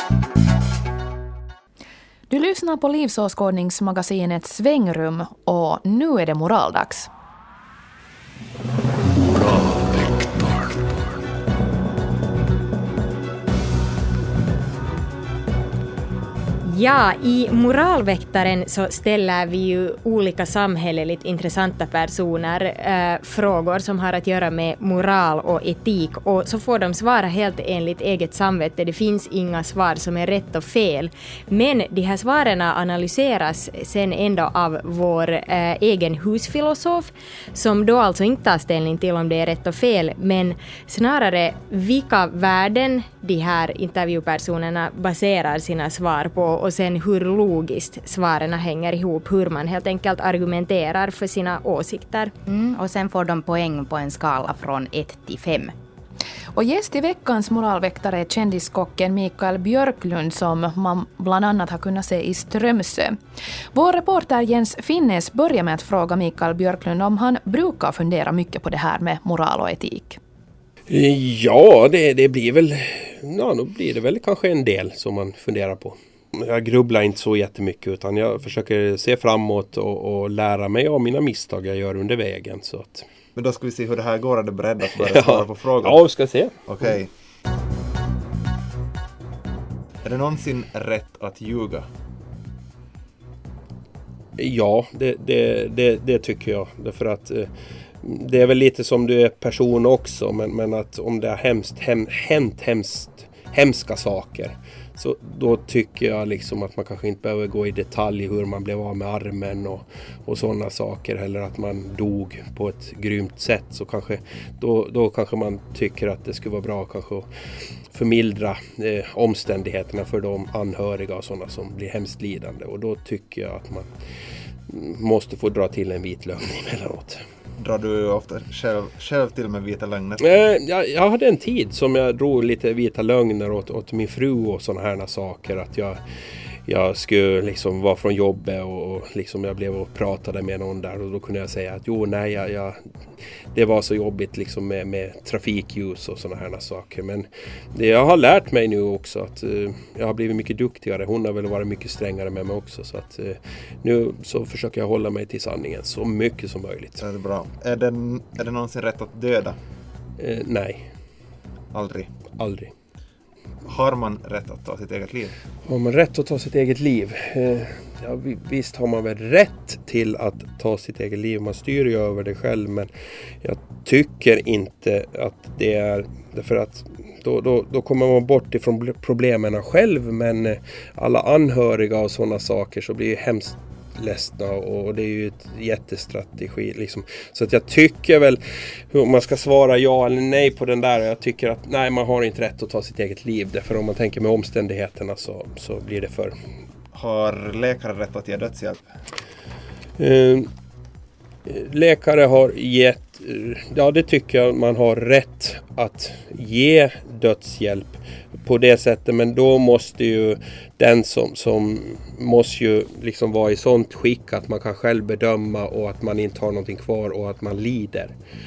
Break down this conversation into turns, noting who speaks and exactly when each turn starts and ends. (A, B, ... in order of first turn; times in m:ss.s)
0:02.3-0:07.1 A
0:16.6-0:52.3 B
0:52.4-0:55.7 C
0:56.5-1:03.2 A
1:03.7-1:10.2 A
1:10.9-1:23.0 D
1:23.4-1:26.1 E
1:25.0-1:26.9 D
1:26.6-1:27.1 E
1:30.0-1:31.9 E
1:34.4-1:57.3 D
1:57.8-2:04.0 D
2:04.7-2:07.2 D
2:07.6-2:10.3 E
2:10.2-2:16.0 D
2:16.6-2:22.8 D
2:23.5-2:37.0 D
2:37.0-2:39.6 E
2:40.2-2:40.9 D
2:41.7-2:42.1 E
2:42.3-2:42.7 D
2:43.6-2:45.3 E
2:45.6-3:08.4 D
3:08.9-3:16.4 D
3:16.9-3:18.9 E
3:20.0-3:20.5 D
3:21.4-3:38.1 D